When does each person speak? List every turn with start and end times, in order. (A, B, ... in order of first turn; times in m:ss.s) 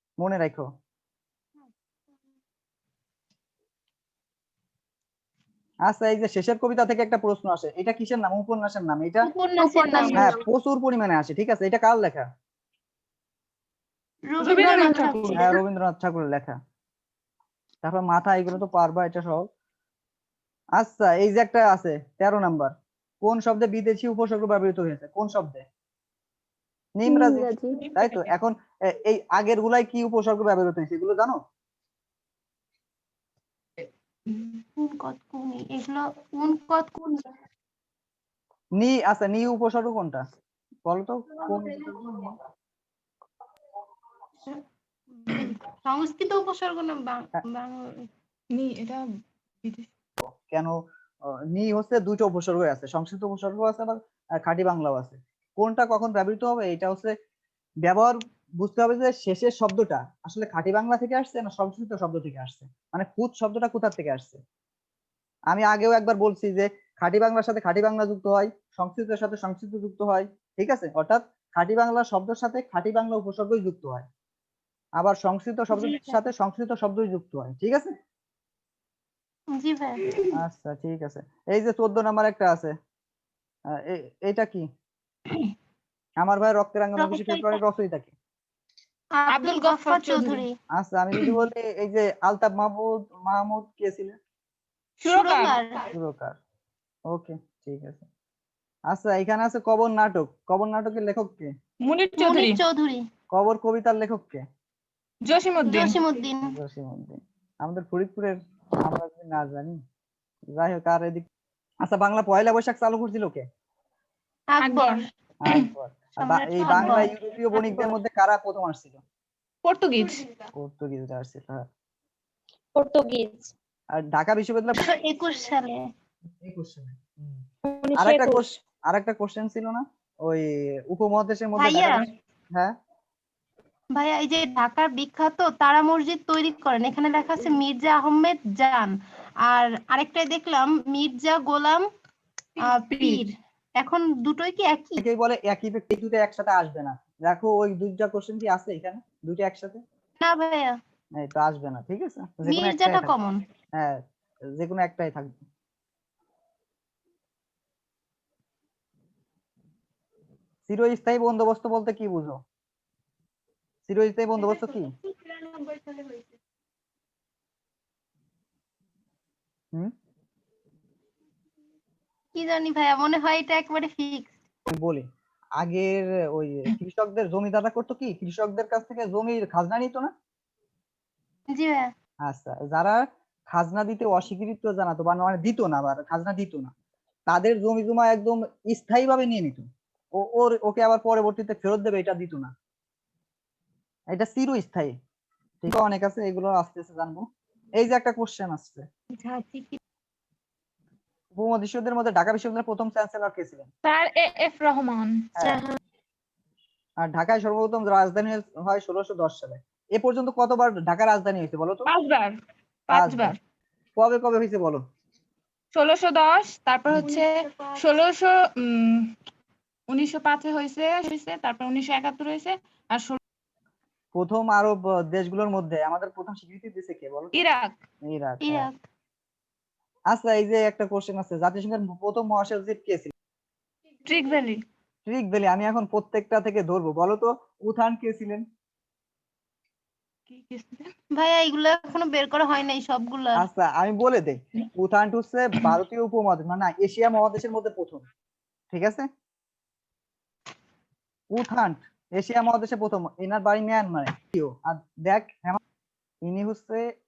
0:00.2-0:00.7 A
0:05.9-0:09.3 A
0:09.2-0:10.2 B
0:09.6-0:10.4 C
0:10.1-0:12.3 A
0:14.3-0:15.5 B
0:14.4-0:15.6 D
0:15.3-0:16.6 A
0:17.8-0:19.5 A
0:20.8-0:22.7 A
0:23.2-0:25.6 A
0:27.0-0:31.4 A
0:27.1-0:27.8 C
0:27.8-0:28.3 D
0:34.8-0:37.2 B
0:38.8-0:40.2 A
0:40.9-0:42.0 A
0:45.2-0:48.1 B
0:48.5-0:49.0 D
0:49.6-0:49.9 D
0:50.2-0:50.8 A
0:51.5-0:57.1 A
0:57.8-1:04.4 A
1:05.5-1:14.1 A
1:15.0-1:17.9 A
1:15.7-1:16.2 B
1:19.6-1:20.0 B
1:20.3-1:22.8 A
1:23.7-1:24.7 A
1:26.2-1:28.1 A
1:27.0-1:27.6 B
1:29.2-1:30.5 B
1:29.3-1:30.4 D
1:30.8-1:34.2 A
1:35.0-1:35.6 D
1:35.0-1:35.8 B
1:35.9-1:36.4 A
1:37.1-1:38.1 A
1:38.9-1:41.5 A
1:41.8-1:42.6 D
1:42.2-1:43.0 B
1:43.3-1:44.4 A
1:45.2-1:46.0 D
1:45.6-1:46.5 B
1:46.5-1:49.8 A
1:50.5-1:51.3 A
1:51.8-1:53.4 A
1:54.5-1:55.1 B
1:54.6-1:55.7 D
1:55.4-1:59.0 A
1:56.2-1:57.1 B
1:59.6-2:00.2 D
2:00.6-2:01.6 A
2:02.8-2:03.5 C
2:03.9-2:04.8 A
2:04.8-2:05.8 B
2:06.4-2:07.4 A
2:07.6-2:08.4 C
2:08.0-2:12.7 A
2:11.6-2:12.0 B
2:14.0-2:18.9 B
2:19.5-2:21.8 B
2:22.6-2:23.2 D
2:22.6-2:25.0 B
2:25.0-2:29.8 A
2:30.2-2:30.8 B
2:31.2-2:33.1 A
2:32.5-2:33.4 B
2:34.6-2:35.4 A
2:40.7-2:42.4 A
2:43.9-2:44.9 A
2:52.4-2:54.3 B
2:54.7-2:55.0 A
2:55.6-3:00.1 A
3:01.5-3:01.9 B
3:02.2-3:06.7 A
3:07.3-3:12.5 A
3:14.1-3:14.9 A
3:15.6-3:17.2 A
3:17.8-3:18.9 A
3:19.2-3:19.8 B
3:21.3-3:23.7 A
3:23.8-3:25.2 D
3:25.4-3:25.6 A
3:25.4-3:25.8 C
3:27.0-3:31.9 A
3:31.9-3:32.3 D
3:32.9-3:33.4 D
3:32.9-3:33.4 A
3:34.0-3:34.8 A
3:35.8-3:39.1 D
3:37.0-3:37.7 B
3:39.9-3:43.2 D
3:44.2-3:47.4 A
3:47.3-3:47.8 D
3:48.1-3:48.7 A
3:48.4-3:48.8 B
3:50.1-3:53.1 A
3:54.0-3:54.6 D
3:55.1-3:58.4 A
4:00.3-4:00.9 D
4:01.2-4:03.4 B
4:03.4-4:08.0 A
4:08.7-4:09.1 A
4:11.3-4:15.6 A
4:16.2-4:16.9 A